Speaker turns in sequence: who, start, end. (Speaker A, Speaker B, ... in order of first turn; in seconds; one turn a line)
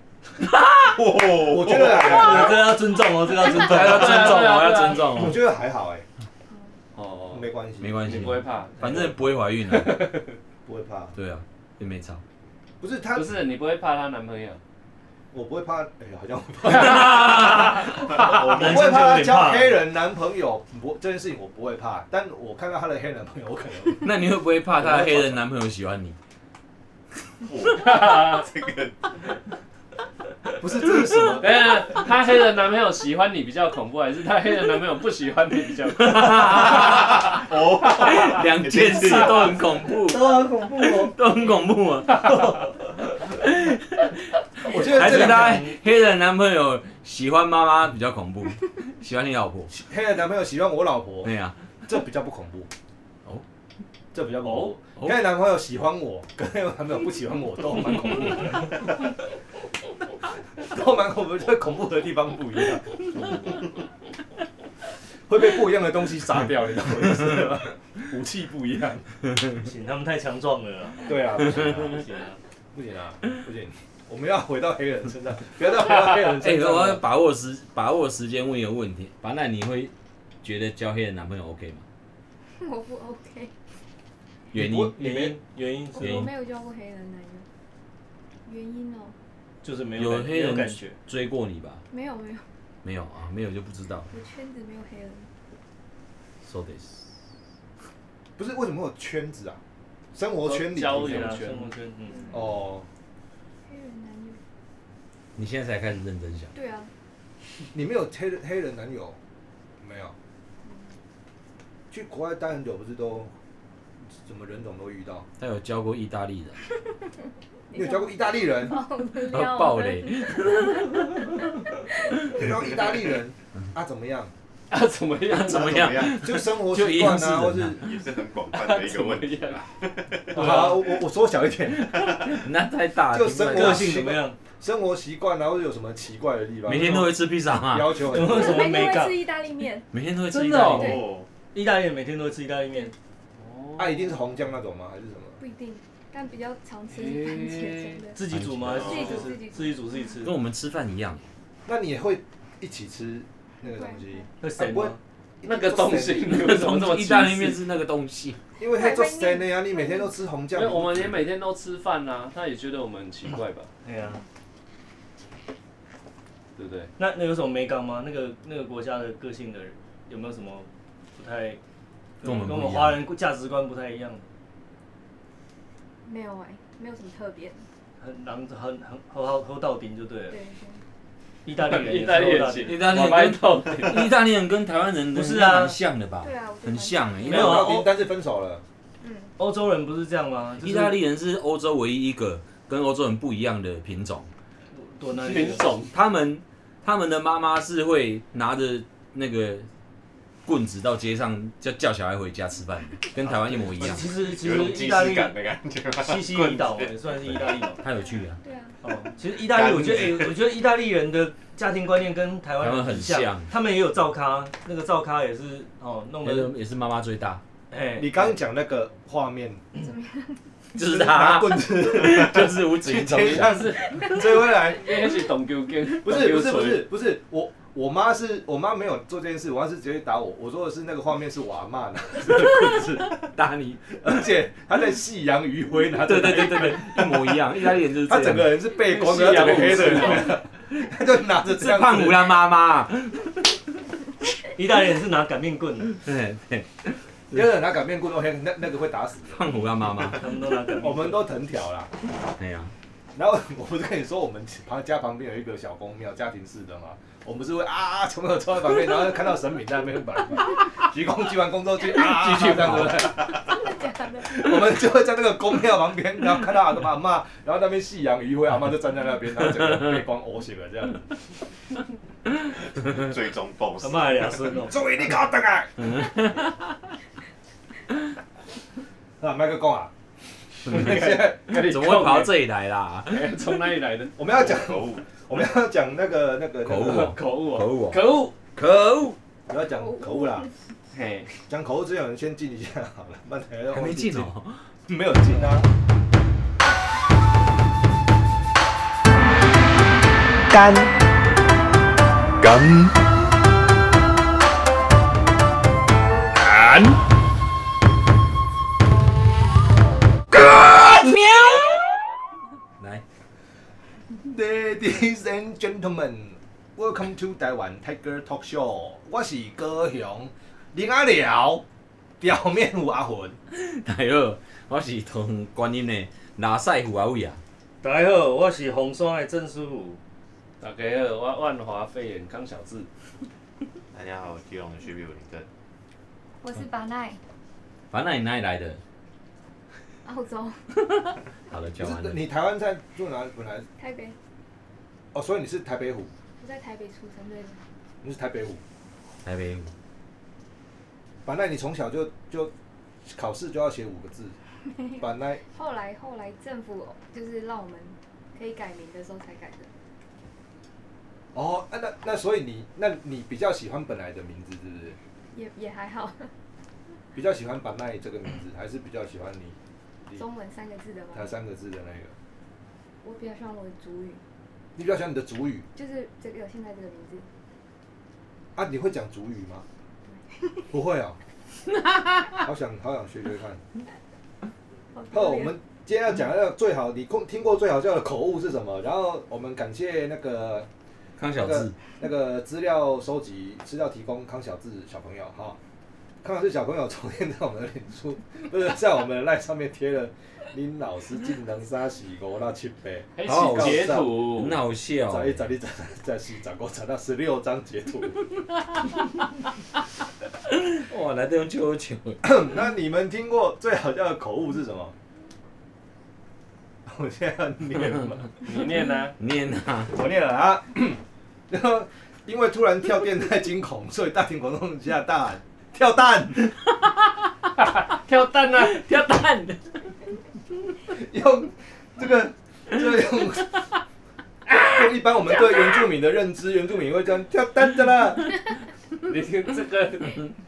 Speaker A: 0.4-0.9
Speaker B: 0.8-2.5
Speaker C: 1.4-2.6
Speaker D: 2.0-4.4
Speaker A: 3.4-5.4
Speaker E: 3.6-5.3
Speaker C: 5.1-6.1
Speaker E: 7.0-7.5
Speaker C: 7.3-8.3
Speaker A: 7.8-10.1
Speaker E: 8.0-9.1
Speaker E: 9.7-10.2
Speaker C: 10.7-11.2
Speaker A: 11.2-12.2
Speaker C: 12.8-13.4
Speaker E: 13.1-14.6
Speaker C: 15.3-24.1
Speaker E: 16.9-17.6
Speaker B: 17.8-19.1
Speaker D: 18.2-19.8
Speaker A: 24.0-26.2
Speaker C: 24.8-25.4
Speaker B: 27.4-29.1
Speaker E: 27.7-28.5
Speaker C: 30.6-31.7
Speaker E: 31.4-37.4
Speaker A: 36.0-37.3
Speaker B: 36.7-39.7
Speaker A: 38.0-42.5
Speaker C: 40.1-40.7
Speaker D: 40.3-41.0
Speaker A: 43.3-49.7
Speaker C: 44.7-45.7
Speaker D: 44.8-45.8
Speaker C: 49.7-51.3
Speaker A: 51.2-51.6
Speaker C: 51.9-52.7
Speaker C: 54.1-59.0
Speaker C: 60.6-63.4
Speaker C: 65.3-69.0
Speaker D: 69.5-72.4
Speaker C: 71.0-72.0
Speaker C: 72.7-77.0
Speaker A: 76.4-81.8
Speaker F: 82.6-83.5
Speaker A: 84.5-85.0
Speaker C: 84.5-85.4
Speaker D: 84.9-86.3
Speaker F: 85.9-87.5
Speaker A: 86.0-86.3
Speaker F: 88.5-89.2
Speaker D: 89.6-91.0
Speaker A: 90.0-91.8
Speaker F: 91.9-92.4
Speaker A: 92.8-94.1
Speaker F: 94.1-95.3
Speaker A: 96.4-97.1
Speaker C: 98.4-99.6
Speaker C: 100.1-101.4
Speaker E: 100.5-101.7
Speaker D: 100.8-102.4
Speaker C: 102.3-102.9
Speaker F: 103.7-104.4
Speaker A: 105.4-106.5
Speaker F: 106.5-106.9
Speaker C: 107.7-109.2
Speaker C: 109.8-110.2
Speaker C: 111.9-113.3
Speaker C: 114.2-115.3
Speaker A: 115.4-116.6
Speaker F: 117.7-122.4
Speaker C: 117.7-118.8
Speaker A: 119.2-121.1
Speaker C: 122.2-124.3
Speaker E: 124.7-125.9
Speaker A: 125.3-127.8
Speaker B: 125.5-126.5
Speaker C: 126.1-127.8
Speaker B: 127.8-130.6
Speaker E: 128.5-129.7
Speaker C: 130.3-132.4
Speaker D: 130.4-130.8
Speaker A: 132.0-134.0
Speaker C: 133.1-138.7
Speaker D: 133.4-134.4
Speaker A: 136.7-138.0
Speaker D: 138.1-139.2
Speaker F: 138.2-139.9
Speaker A: 139.9-141.0
Speaker E: 140.4-140.8
Speaker D: 140.4-140.7
Speaker F: 140.7-141.0
Speaker B: 140.8-141.3
Speaker D: 141.5-142.9
Speaker E: 143.4-144.1
Speaker C: 143.8-145.4
Speaker F: 145.4-148.2
Speaker E: 146.9-148.0
Speaker D: 148.2-150.3
Speaker A: 148.3-148.9
Speaker B: 148.7-149.3
Speaker F: 148.8-150.1
Speaker A: 150.2-151.2
Speaker C: 151.7-156.3
Speaker F: 153.6-154.3
Speaker D: 154.4-155.0
Speaker E: 155.4-157.6
Speaker A: 156.3-158.4
Speaker C: 158.6-161.2
Speaker F: 158.6-160.1
Speaker E: 160.5-163.7
Speaker D: 163.8-164.2
Speaker E: 166.6-166.9
Speaker D: 167.0-171.6
Speaker D: 172.2-174.2
Speaker A: 172.2-173.0
Speaker F: 176.1-177.7
Speaker D: 178.0-180.4
Speaker F: 180.3-180.8
Speaker D: 181.4-182.8
Speaker E: 181.5-184.1
Speaker A: 182.7-187.7
Speaker D: 185.1-185.8
Speaker F: 186.2-187.3
Speaker C: 187.2-188.6
Speaker D: 187.3-187.9
Speaker F: 189.0-189.3
Speaker D: 189.4-191.0
Speaker A: 190.6-194.3
Speaker D: 194.7-195.8
Speaker E: 195.1-195.9
Speaker A: 195.9-199.7
Speaker A: 200.5-204.1
Speaker D: 203.3-205.4
Speaker B: 204.0-207.0
Speaker D: 206.0-207.8
Speaker A: 207.8-208.4
Speaker F: 208.4-208.8
Speaker D: 208.8-216.5
Speaker B: 209.4-210.4
Speaker A: 212.6-213.5
Speaker A: 216.2-217.4
Speaker D: 217.7-218.4
Speaker C: 218.0-219.6
Speaker F: 219.8-220.3
Speaker A: 220.8-223.6
Speaker C: 220.8-224.9
Speaker E: 223.3-226.9
Speaker F: 223.9-224.2
Speaker C: 226.0-233.2
Speaker A: 233.3-234.1
Speaker C: 234.0-237.4
Speaker A: 236.0-238.6
Speaker C: 238.1-242.3
Speaker E: 238.8-240.4
Speaker A: 241.5-243.4
Speaker D: 244.6-246.0
Speaker A: 246.0-247.4
Speaker C: 247.3-249.5
Speaker A: 249.3-250.2
Speaker D: 250.0-251.3
Speaker C: 250.8-251.9
Speaker A: 252.4-252.7
Speaker C: 253.2-271.1
Speaker E: 262.1-263.0
Speaker F: 263.4-264.5
Speaker B: 272.8-274.6
Speaker D: 273.8-274.8
Speaker C: 274.7-275.8
Speaker A: 275.8-276.6
Speaker C: 279.2-279.9
Speaker C: 280.6-282.0
Speaker A: 280.7-283.3
Speaker E: 280.7-282.3
Speaker E: 283.1-284.2
Speaker C: 284.2-287.1
Speaker B: 284.2-285.1
Speaker A: 286.6-288.0
Speaker E: 286.8-288.4
Speaker A: 288.6-289.1
Speaker C: 289.5-290.5
Speaker F: 289.8-290.5
Speaker E: 290.9-291.3
Speaker C: 291.5-294.3
Speaker A: 293.7-294.6
Speaker C: 294.9-295.7
Speaker C: 300.5-300.9
Speaker C: 302.4-302.9
Speaker C: 306.5-306.9
Speaker C: 310.4-311.6
Speaker C: 314.2-321.6
Speaker C: 322.2-323.4
Speaker A: 323.5-327.4
Speaker D: 327.8-330.0
Speaker E: 330.6-332.9
Speaker B: 333.9-335.5
Speaker F: 336.4-337.2
Speaker A: 337.9-338.8
Speaker F: 340.1-340.6
Speaker A: 341.5-342.2
Speaker C: 341.8-343.7
Speaker F: 343.8-344.1
Speaker C: 345.1-346.1
Speaker F: 346.4-347.6
Speaker C: 348.0-348.6
Speaker A: 349.2-349.7
Speaker C: 351.2-352.5
Speaker C: 353.1-354.4
Speaker F: 354.7-359.7
Speaker C: 355.0-355.4
Speaker C: 361.4-365.0
Speaker F: 365.3-366.3
Speaker C: 367.1-369.6
Speaker F: 370.1-371.3
Speaker C: 371.1-372.1
Speaker F: 373.0-374.2
Speaker C: 374.8-375.7
Speaker F: 375.8-377.3
Speaker C: 378.6-379.6
Speaker F: 380.1-380.7
Speaker C: 380.7-381.2
Speaker C: 382.4-383.6
Speaker F: 384.9-385.6
Speaker C: 385.1-390.7
Speaker A: 391.2-391.8
Speaker C: 391.4-395.6
Speaker C: 396.2-404.2
Speaker E: 403.2-404.6
Speaker A: 403.2-405.4
Speaker C: 405.1-408.2
Speaker A: 410.5-412.2
Speaker C: 412.2-414.9
Speaker C: 416.9-418.3
Speaker E: 418.4-419.1
Speaker A: 419.2-420.0
Speaker C: 419.9-426.6
Speaker E: 427.8-429.2
Speaker A: 428.6-429.6
Speaker C: 430.9-433.5
Speaker C: 434.5-438.3
Speaker E: 439.1-440.2